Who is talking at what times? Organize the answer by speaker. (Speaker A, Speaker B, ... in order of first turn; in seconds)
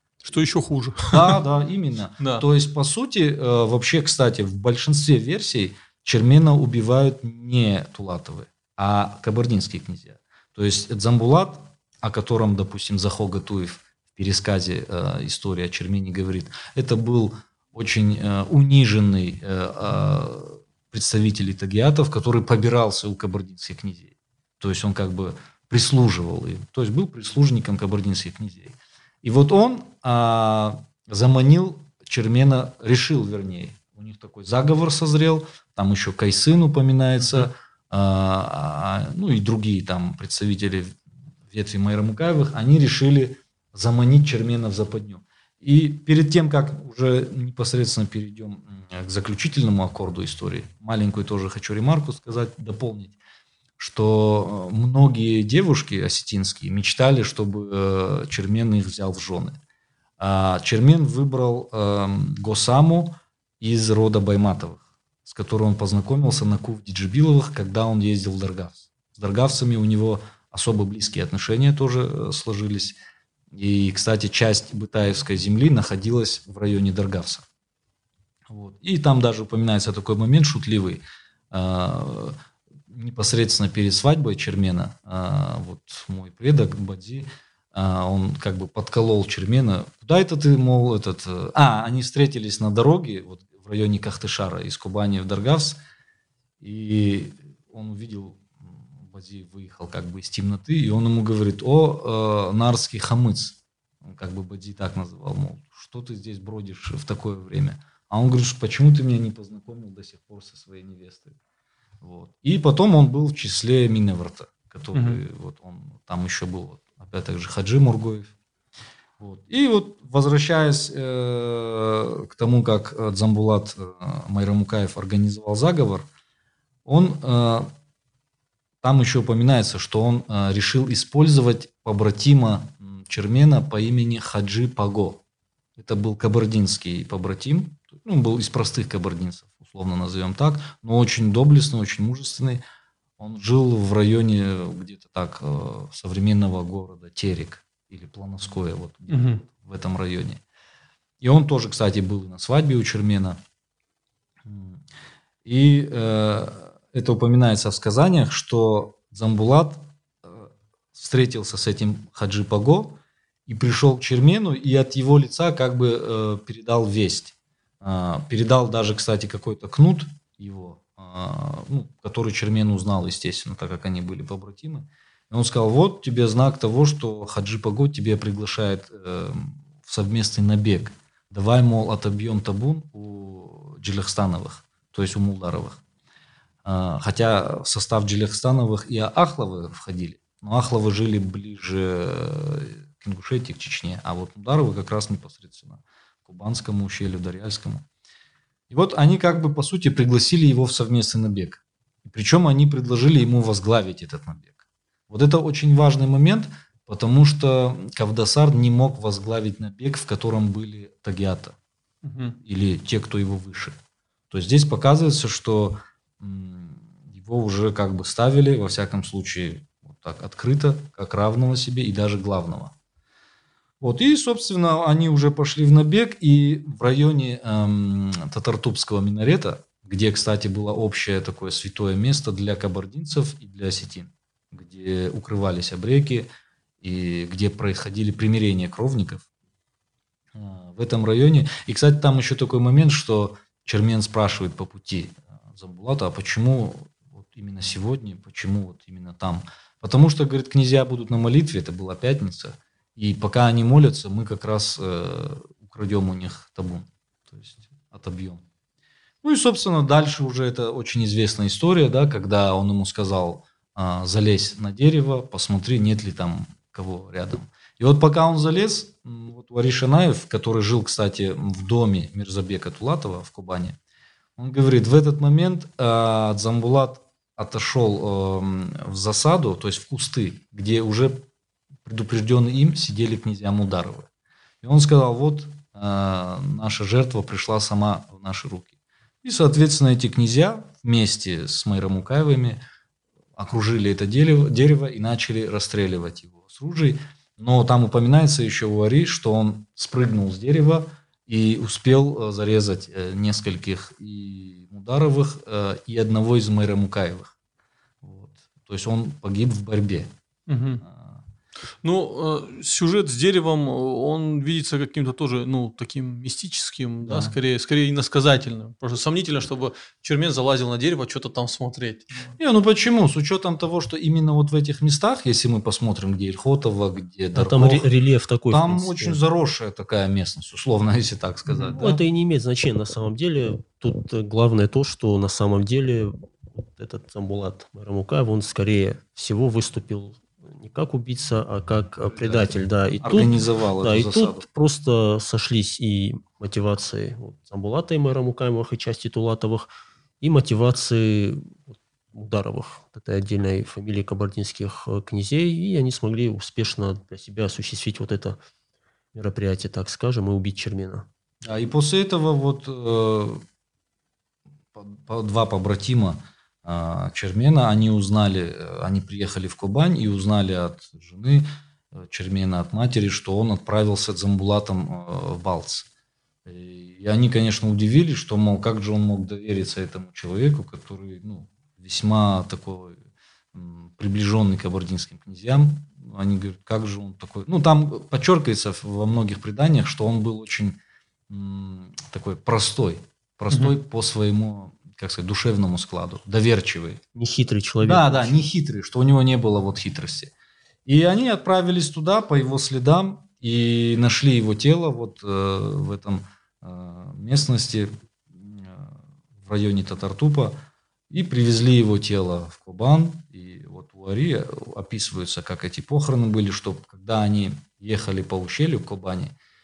Speaker A: 0.2-1.4, 114.9-115.2, 149.1-149.4, 212.0-212.4, 310.5-310.8, 311.8-322.4
Speaker B: 1.1-41.0, 41.5-53.1, 53.8-59.6, 60.2-73.0, 73.5-77.5, 78.5-82.3, 82.9-95.8, 96.6-111.4, 112.0-118.3, 119.2-126.1, 126.8-127.7, 128.8-135.2, 135.8-142.6, 143.2-150.4, 151.2-153.4, 154.4-154.8, 155.4-185.8, 186.6-197.8, 198.7-211.6, 212.4-213.8, 214.3-222.7, 223.8-236.3, 236.8-239.2, 240.3-258.4, 259.2-273.8, 274.4-281.2, 281.8-284.1, 284.6-288.7, 289.2-292.6, 293.4-307.3, 308.0-310.1, 310.8-311.2, 317.0-317.3, 322.4-327.9, 328.5-332.0, 342.1-344.4, 361.4-363.4, 364.7-375.9, 376.4-383.0, 383.5-390.8, 391.3-397.0, 397.8-400.3, 400.9-410.6, 411.1-419.3
Speaker C: 327.3-329.2, 331.7-349.7, 350.2-358.4, 359.1-361.1, 397.1-398.5